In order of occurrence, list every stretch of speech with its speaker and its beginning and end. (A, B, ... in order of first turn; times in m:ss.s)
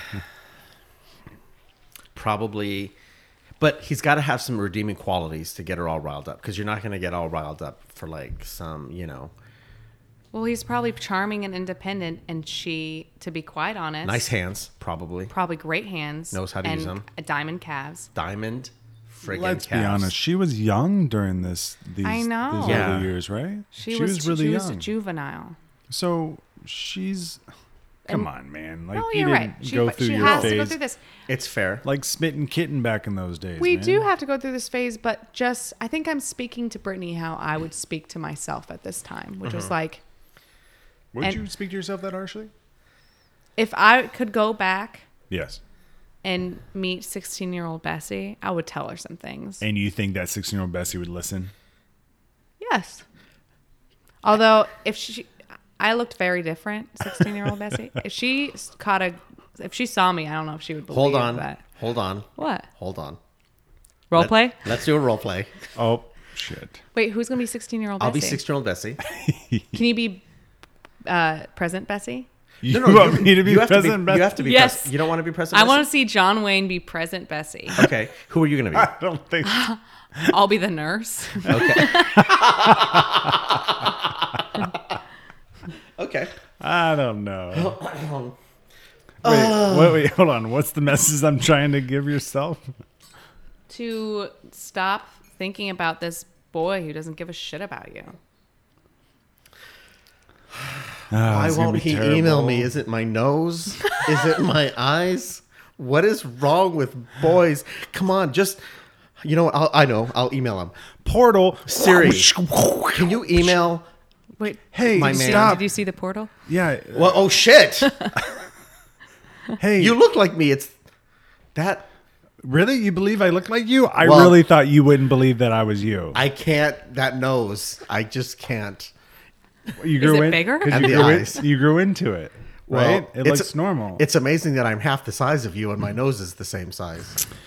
0:02.1-0:02.9 A
0:03.6-0:09.3 A
0:10.3-0:14.3 B
0:14.0-0:15.3 A
0:15.3-0:18.1 B
0:16.3-0:17.0 A
0:18.1-0:20.1 A
0:19.3-0:24.9 C
0:22.0-0:22.9 B
0:22.6-0:23.1 A
0:23.7-0:25.6 B
0:25.9-0:27.4 C
0:28.1-0:30.8 C
0:28.9-0:31.0 B
0:30.2-0:30.6 A
0:31.3-0:31.8 A
0:31.8-0:34.1 C
0:33.6-0:40.0 B
0:39.4-0:39.7 A
0:41.1-0:42.5 C
0:43.6-0:45.1 B
0:45.3-0:45.6 C
0:46.2-0:49.6 B
0:49.6-0:51.5 C
0:52.6-0:53.0 B
0:54.2-1:01.6 B
1:00.9-1:03.2 A
1:02.4-1:02.7 B
1:04.1-1:04.6 B
1:04.1-1:05.5 A
1:05.8-1:06.8 C
1:06.9-1:08.4 B
1:08.0-1:09.0 A
1:09.1-1:09.7 C
1:09.7-1:10.2 B
1:11.0-1:12.3 B
1:12.6-1:14.4 C
1:12.6-1:15.8 A
1:14.4-1:17.9 B
1:17.7-1:18.9 A
1:18.7-1:20.4 C
1:19.4-1:22.3 B
1:21.4-1:24.7 A
1:21.8-1:23.2 C
1:26.0-1:26.3 A
1:26.6-1:27.7 C
1:27.5-1:28.4 A
1:29.2-1:30.0 A
1:29.2-1:32.7 C
1:33.7-1:38.2 B
1:41.1-1:42.7 C
1:41.2-1:48.6 A
1:49.2-1:50.7 A
1:51.0-1:53.6 C
1:51.6-1:52.3 A
1:52.9-1:53.9 A
1:54.4-1:56.3 B
1:54.7-1:55.6 C
1:54.9-1:55.6 A
1:56.5-1:57.2 C
1:56.9-1:58.1 A
1:59.6-2:00.0 C
1:59.8-2:00.7 A
2:01.5-2:01.9 A
2:02.4-2:06.2 C
2:04.0-2:04.4 A
2:06.1-2:08.9 A
2:09.8-2:14.0 C
2:10.0-2:11.1 B
2:10.6-2:11.4 A
2:12.7-2:17.2 A